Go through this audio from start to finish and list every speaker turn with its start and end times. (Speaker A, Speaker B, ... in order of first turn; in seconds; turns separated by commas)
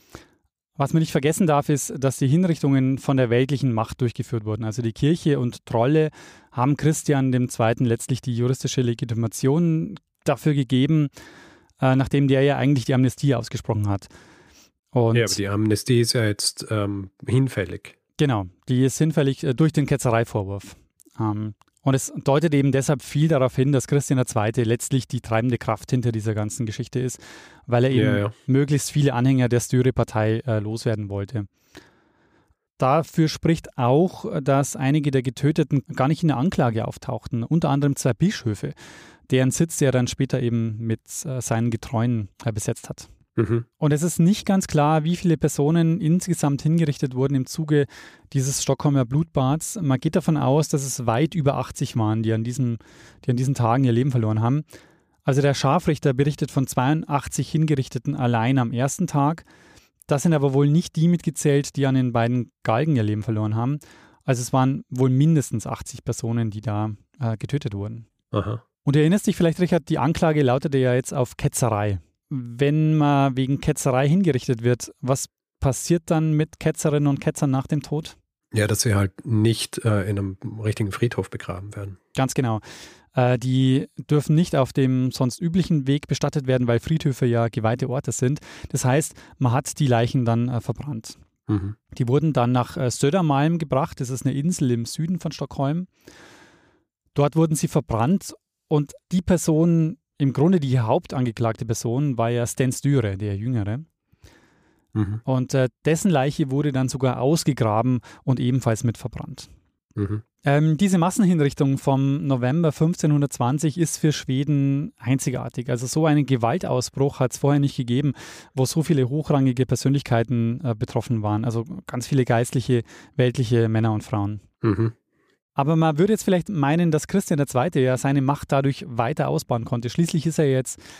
Speaker A: 0.8-11.1, Speaker A: 11.8-14.1, Speaker A: 14.9-15.4, Speaker B: 15.1-17.9, Speaker A: 18.2-31.5, Speaker B: 27.9-28.3, Speaker A: 32.8-38.8, Speaker A: 39.3-43.1, Speaker B: 43.4-43.6, Speaker A: 43.8-54.6, Speaker A: 55.2-59.5, Speaker A: 60.1-68.1, Speaker B: 68.3-68.6, Speaker A: 68.8-78.2, Speaker B: 78.5-82.0, Speaker A: 82.2-82.6, Speaker A: 83.1-91.2, Speaker B: 91.5-91.7, Speaker A: 91.9-95.9, Speaker A: 97.2-103.9, Speaker A: 105.2-109.5, Speaker A: 110.5-124.4, Speaker B: 124.6-124.9, Speaker A: 125.6-130.8